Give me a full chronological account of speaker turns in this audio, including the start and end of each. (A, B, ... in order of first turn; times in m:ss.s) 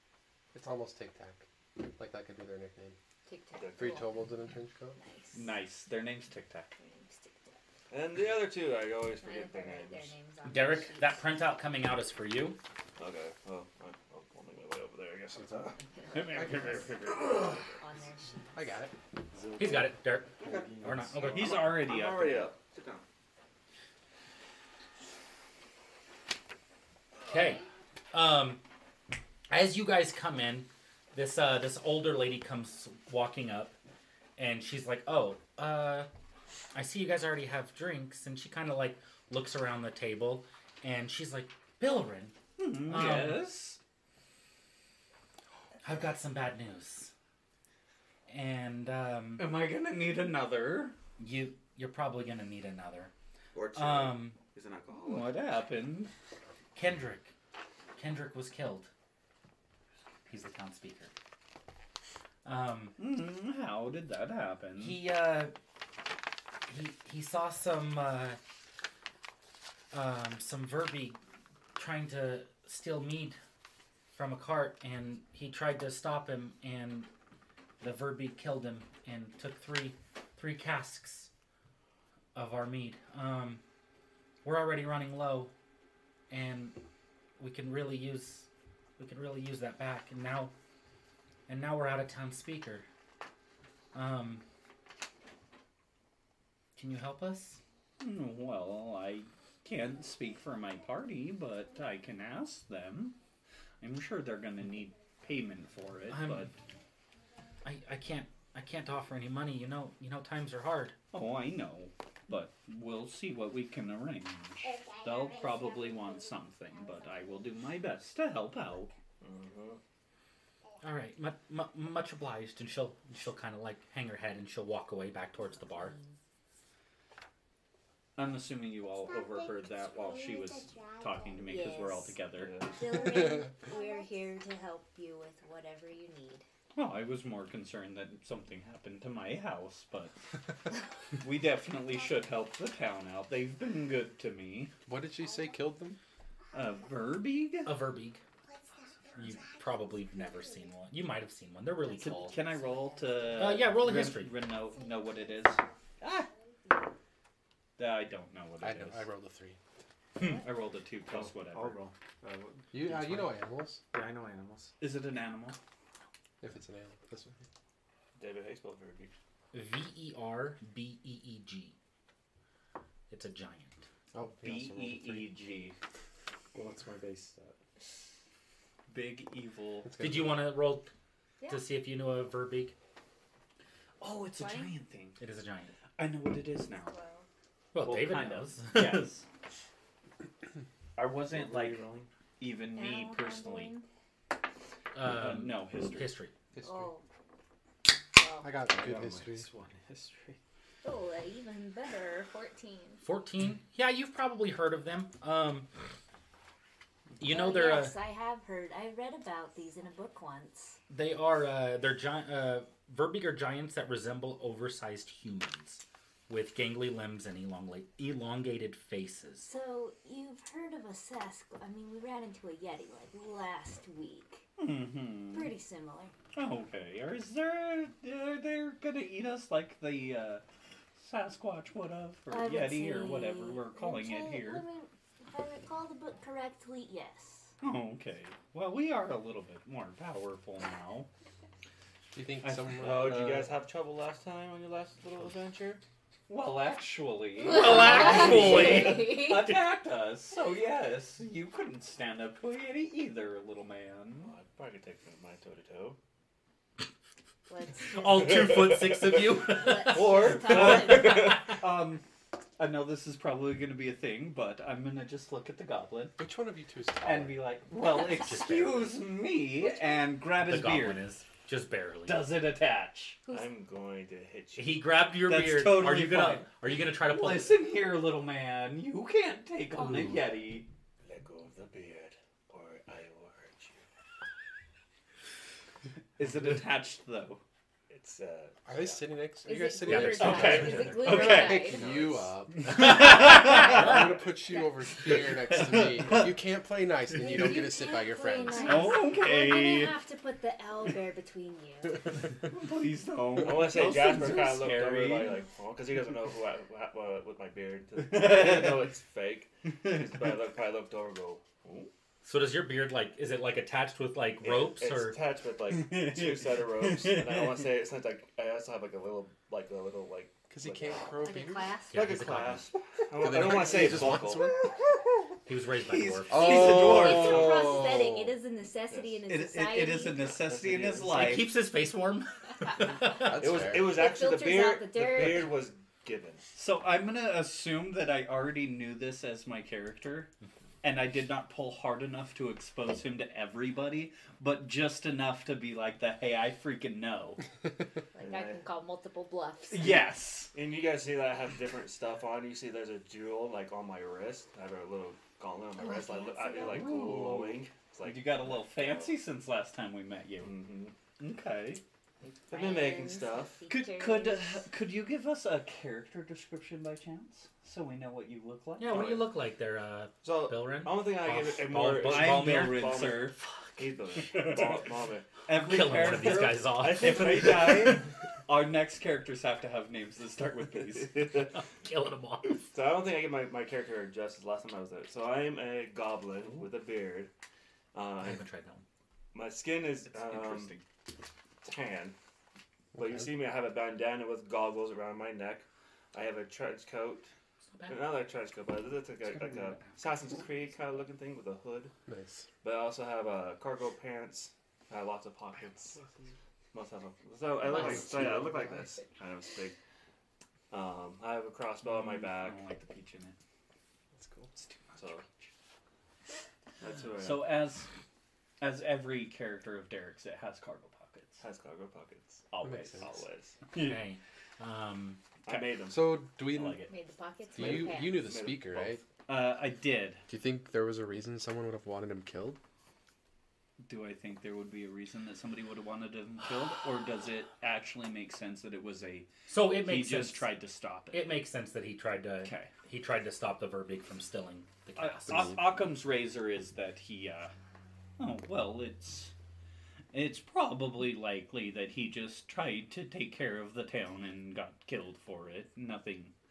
0:00.5-0:03.0 A
0:03.2-0:04.1 B
0:03.6-0:04.0 C
0:03.8-0:05.0 A
0:05.0-0:05.6 B
0:05.3-0:06.7 D
0:06.7-0:07.6 B
0:07.9-0:10.1 C
0:09.2-0:11.3 B
0:10.4-0:12.6 E
0:13.0-0:17.8 C
0:15.8-0:16.8 B
0:16.1-0:17.0 D
0:16.3-0:16.8 A
0:17.8-0:18.8 B
0:18.5-0:18.9 A
0:19.3-0:21.6 F
0:19.6-0:21.6 E
0:20.4-0:23.0 C
0:21.2-0:22.5 D
0:27.2-0:28.6 E
0:29.5-0:33.8 E
0:34.4-0:36.1 E
0:36.7-0:43.4 E
0:42.6-0:43.8 D
0:45.8-0:47.1 E
0:48.3-0:49.5 E
0:49.4-0:51.0 D
0:51.2-0:53.1 E
0:53.5-0:55.4 C
0:53.7-0:54.4 E
0:55.0-0:56.1 D
0:56.7-0:57.3 E
0:58.0-0:58.9 E
1:00.3-1:01.1 E
1:02.4-1:03.0 E
1:03.0-1:05.0 D
1:04.8-1:05.5 E
1:06.7-1:08.4 E
1:09.9-1:11.2 E
1:11.8-1:13.4 E
1:14.1-1:17.1 E
1:17.8-1:21.3 E
1:22.3-1:23.6 E
1:24.4-1:25.5 E
1:26.3-1:26.8 E
1:27.4-1:30.5 E
1:31.5-1:32.9 E
1:33.9-1:34.4 E
1:36.8-1:37.6 E
1:38.0-1:43.2 D
1:43.8-1:46.5 D
1:46.1-1:46.5 E
1:47.6-1:51.0 E
1:51.1-1:58.9 D
1:59.2-1:59.8 C
2:00.8-2:06.0 E
2:05.5-2:06.2 B
2:08.2-2:12.7 D
2:11.4-2:16.4 B
2:12.3-2:12.9 C
2:16.7-2:20.2 D
2:21.2-2:24.7 D
2:24.9-2:26.0 A
2:26.5-2:27.8 D
2:27.6-2:28.2 E
2:29.2-2:32.4 E
2:31.9-2:33.6 B
2:31.9-2:36.3 D
2:33.3-2:34.4 E
2:37.8-2:39.1 D
2:38.6-2:39.6 A
2:40.2-2:40.5 B
2:40.2-2:41.8 D
2:41.1-2:44.8 F
2:42.7-2:43.8 A
2:44.8-2:45.6 D
2:46.4-2:47.4 A
2:48.2-2:49.1 C
2:49.5-2:51.7 E
2:53.1-2:53.8 E
2:54.1-2:55.3 A
2:54.4-2:55.8 D
2:56.5-2:57.6 F
2:58.9-2:59.9 D
2:59.8-3:00.5 A
3:00.0-3:00.9 E
3:01.4-3:01.6 B
3:01.5-3:02.7 E
3:04.0-3:05.2 D
3:04.3-3:04.7 B
3:05.2-3:05.7 E
3:06.0-3:06.9 D
3:06.7-3:07.3 B
3:07.7-3:09.1 E
3:07.8-3:09.2 D
3:11.0-3:11.8 D
3:11.2-3:12.1 F
3:12.4-3:13.7 D
3:12.7-3:13.8 B
3:14.9-3:16.3 E
3:15.0-3:16.1 D
3:16.6-3:16.8 A
3:16.6-3:17.0 B
3:18.2-3:18.5 B
3:18.4-3:19.5 A
3:18.6-3:20.4 F
3:20.8-3:23.0 B
3:23.0-3:25.7 E
3:27.2-3:28.0 E
3:27.2-3:30.8 B
3:30.9-3:39.5 E
3:39.4-3:44.5 B
3:44.6-3:45.5 D
3:45.3-3:46.1 B
3:46.3-3:50.4 D
3:51.0-3:54.6 D
3:52.3-3:57.5 B
3:57.6-4:01.1 D
4:02.1-4:03.4 A
4:02.4-4:03.4 D
4:02.8-4:05.8 C
4:06.3-4:14.3 D
4:07.4-4:09.6 B
4:07.5-4:09.1 E
4:14.2-4:16.0 C
4:17.5-4:18.1 B
4:17.9-4:21.4 E
4:19.5-4:21.3 B
4:19.9-4:22.0 D
4:20.5-4:21.2 C
4:22.6-4:26.2 D
4:26.2-4:27.5 A
4:27.0-4:31.0 D
4:28.0-4:29.0 E
4:30.4-4:32.3 E
4:32.1-4:33.2 D
4:33.2-4:33.5 B
4:33.3-4:34.8 C
4:34.6-4:37.6 E
4:35.3-4:40.7 D
4:41.0-4:43.8 C
4:46.2-4:47.4 D
4:47.9-4:49.2 C
4:48.7-4:58.9 A
4:49.4-4:51.8 B
4:49.8-4:50.9 E
4:50.1-4:52.0 D
4:52.7-4:53.8 D
4:52.8-4:53.7 E
4:55.1-4:56.3 D
4:57.1-5:02.1 B
4:58.5-5:00.0 D
5:02.4-5:05.4 D
5:03.4-5:11.9 C
5:08.0-5:08.9 D
5:12.2-5:15.2 E
5:14.4-5:21.2 C
5:15.7-5:17.6 D
5:20.5-5:21.8 A
5:21.2-5:22.0 B
5:21.9-5:22.7 E
5:21.9-5:24.5 C
5:23.1-5:24.6 A
5:23.4-5:27.6 D
5:25.4-5:26.7 E
5:26.3-5:28.3 A
5:26.8-5:30.3 B
5:28.9-5:29.2 C
5:29.3-5:31.5 D
5:30.3-5:31.4 C
5:31.1-5:33.4 E
5:32.9-5:34.0 A
5:33.4-5:36.4 C
5:33.9-5:35.6 B
5:36.5-5:40.3 D
5:40.8-5:47.4 D
5:48.1-5:49.9 B
5:48.2-5:48.6 C
5:49.7-5:50.5 D
5:50.5-5:59.2 C
5:55.8-5:57.0 B
5:56.6-6:00.7 D
6:00.4-6:00.9 C
6:01.2-6:01.8 D
6:02.2-6:04.6 B
6:02.5-6:03.6 C
6:03.7-6:09.1 D
6:08.8-6:14.6 E
6:08.9-6:09.2 C
6:10.2-6:15.3 C
6:11.9-6:13.4 D
6:14.4-6:14.7 D
6:15.4-6:21.3 D
6:15.5-6:17.6 E
6:16.0-6:18.1 C
6:21.0-6:21.5 C
6:21.5-6:22.6 E
6:22.7-6:27.3 C
6:27.9-6:28.4 C
6:28.2-6:28.8 E
6:29.3-6:30.8 C
6:30.0-6:30.8 D
6:31.6-6:32.2 C
6:33.0-6:33.2 A
6:33.0-6:37.3 C
6:37.7-6:38.1 E
6:37.9-6:41.9 C
6:42.1-6:42.5 A
6:42.6-6:46.0 C
6:46.7-6:49.8 C
6:47.8-6:48.4 A
6:50.7-6:52.6 C
6:51.8-6:53.4 D
6:54.5-6:55.5 D
6:55.0-6:55.2 C
6:56.8-6:57.6 C
6:57.2-6:57.9 D
6:58.6-7:01.4 D
7:01.4-7:02.4 C
7:02.5-7:03.2 D
7:02.6-7:03.0 A
7:03.0-7:03.6 C
7:03.7-7:04.0 D
7:03.7-7:05.2 E
7:05.4-7:06.2 C
7:05.9-7:06.8 A
7:06.4-7:06.9 D
7:06.9-7:08.2 B
7:07.6-7:09.0 A
7:07.6-7:08.9 C
7:09.3-7:10.2 D
7:10.3-7:12.6 A
7:13.8-7:21.4 D
7:19.5-7:20.5 E
7:21.1-7:25.6 E
7:22.4-7:22.7 D
7:25.0-7:27.5 D
7:28.2-7:29.3 D
7:30.1-7:36.3 D